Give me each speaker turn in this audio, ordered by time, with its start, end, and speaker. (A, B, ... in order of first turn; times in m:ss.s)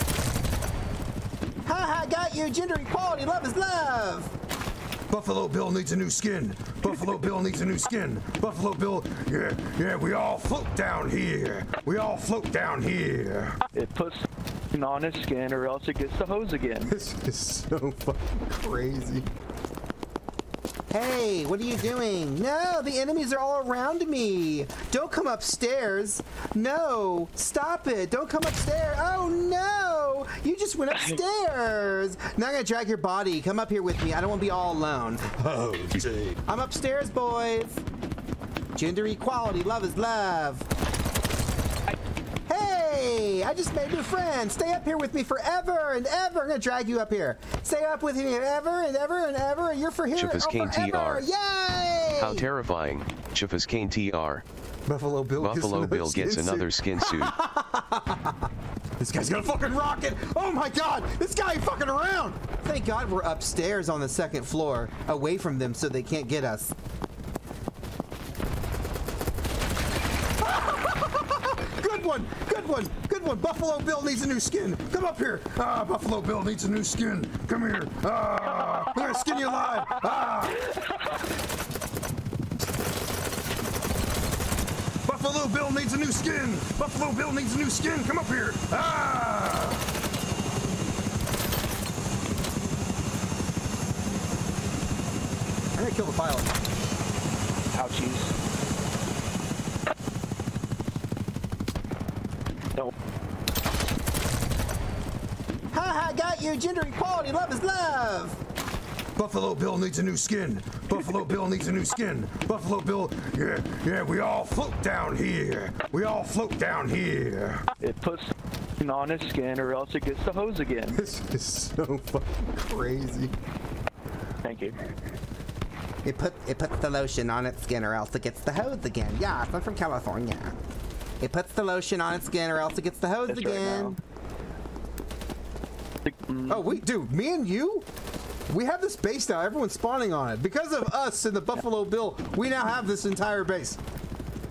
0:01.7-0:04.3 A
0:05.1-0:13.6 B
0:13.7-0:17.0 C
0:16.9-0:19.3 A
0:20.9-0:35.4 A
0:35.5-0:36.4 B
0:36.4-0:37.8 A
0:38.8-0:40.7 A
0:42.5-0:52.5 A
0:50.1-0:51.2 D
0:52.2-0:54.4 D
0:54.9-0:58.5 A
0:55.4-0:57.4 D
0:59.0-1:06.7 A
1:10.4-1:16.4 A
1:16.3-1:19.2 B
1:19.0-1:20.4 A
1:19.8-1:20.6 B
1:25.1-1:29.8 B
1:27.0-1:27.9 A
1:35.8-1:36.6 A
1:37.7-1:38.3 C
1:45.7-1:48.4 A
1:49.2-1:57.6 B
1:57.8-2:01.0 C
2:00.9-2:03.3 A
2:04.4-2:04.8 C
2:06.0-2:10.6 A
2:11.2-2:14.0 A
2:13.3-2:14.0 C
2:16.0-2:16.8 C
2:16.5-2:17.9 A
2:18.5-2:23.8 A